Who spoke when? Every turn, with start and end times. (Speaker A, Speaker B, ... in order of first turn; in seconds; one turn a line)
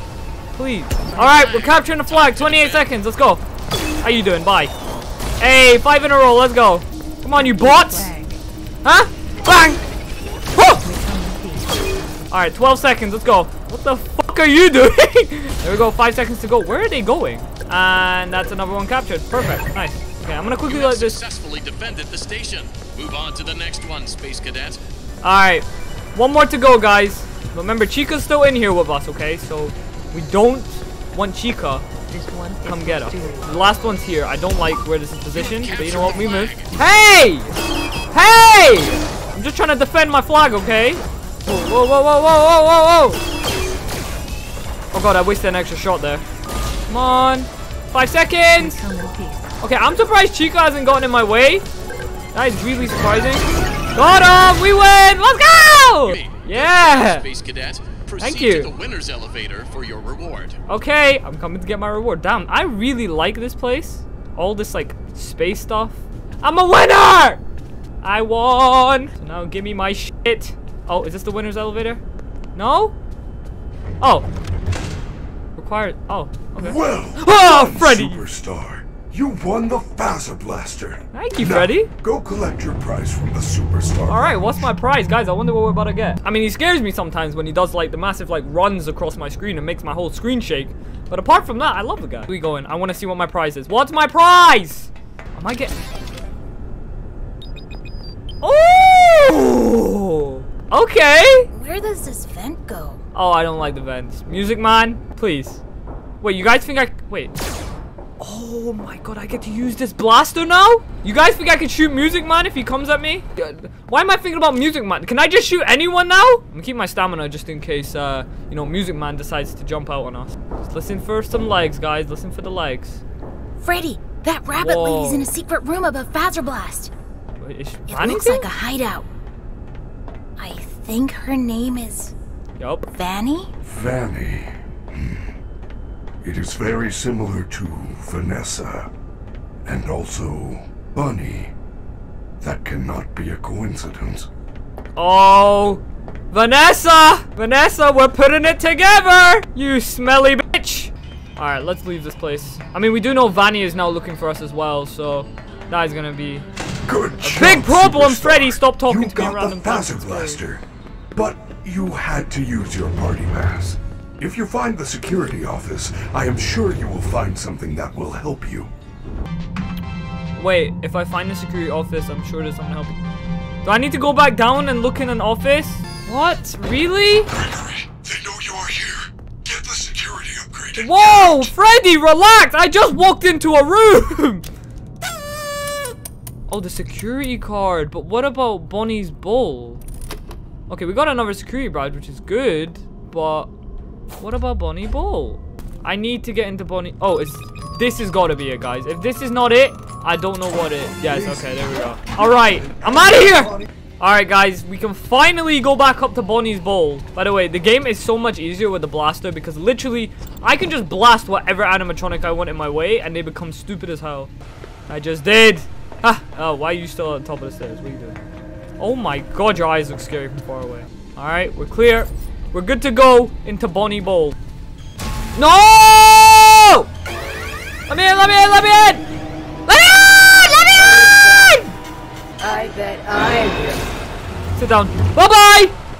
Speaker A: 0.5-3.4
Speaker B: 1.2-2.9
Speaker A: 4.0-4.7
Speaker A: 5.4-8.1
Speaker C: 7.3-8.4
Speaker A: 8.8-9.8
Speaker A: 10.5-10.8
Speaker C: 10.8-11.9
Speaker A: 12.3-21.2
Speaker B: 20.6-24.8
Speaker A: 25.2-31.8
Speaker C: 32.1-33.5
Speaker A: 32.6-37.5
Speaker B: 35.3-36.7
Speaker C: 35.8-36.1
Speaker A: 38.1-43.2
Speaker A: 44.9-46.2
Speaker A: 46.9-48.8
Speaker C: 48.5-49.5
Speaker A: 49.6-51.6
Speaker A: 52.3-57.3
Speaker B: 56.0-60.6
Speaker A: 58.2-58.7
Speaker A: 60.7-67.4
Speaker A: 68.0-72.0
Speaker A: 72.5-73.0
Speaker A: 74.0-74.3
Speaker A: 75.5-78.2
Speaker D: 76.5-84.7
Speaker A: 81.1-81.9
Speaker A: 84.1-95.8
Speaker A: 98.4-101.5
Speaker E: 101.5-103.0
Speaker A: 103.1-105.6
Speaker A: 106.2-107.3
Speaker A: 108.2-123.0
Speaker E: 123.6-126.9
Speaker A: 124.5-125.3
Speaker A: 127.4-128.5
Speaker E: 127.9-129.1
Speaker E: 130.4-132.1
Speaker A: 132.6-132.9
Speaker E: 132.9-133.5
Speaker D: 133.6-135.3
Speaker D: 136.2-138.9
Speaker D: 139.6-141.5
Speaker D: 142.4-144.3
Speaker A: 144.9-156.5
Speaker D: 156.9-160.6
Speaker A: 157.2-160.4
Speaker D: 161.1-168.7
Speaker A: 170.3-173.0
Speaker A: 173.6-177.3
Speaker D: 177.3-181.5
Speaker A: 180.8-184.4
Speaker A: 186.5-189.8
Speaker A: 190.7-193.5
Speaker A: 194.2-214.3
Speaker D: 201.0-203.7
Speaker A: 214.9-218.2
Speaker A: 218.8-224.3
Speaker A: 225.3-226.9
Speaker A: 227.9-229.0
Speaker A: 229.7-231.7
Speaker E: 231.2-231.5
Speaker E: 232.4-233.7
Speaker A: 233.4-233.8
Speaker A: 234.6-235.8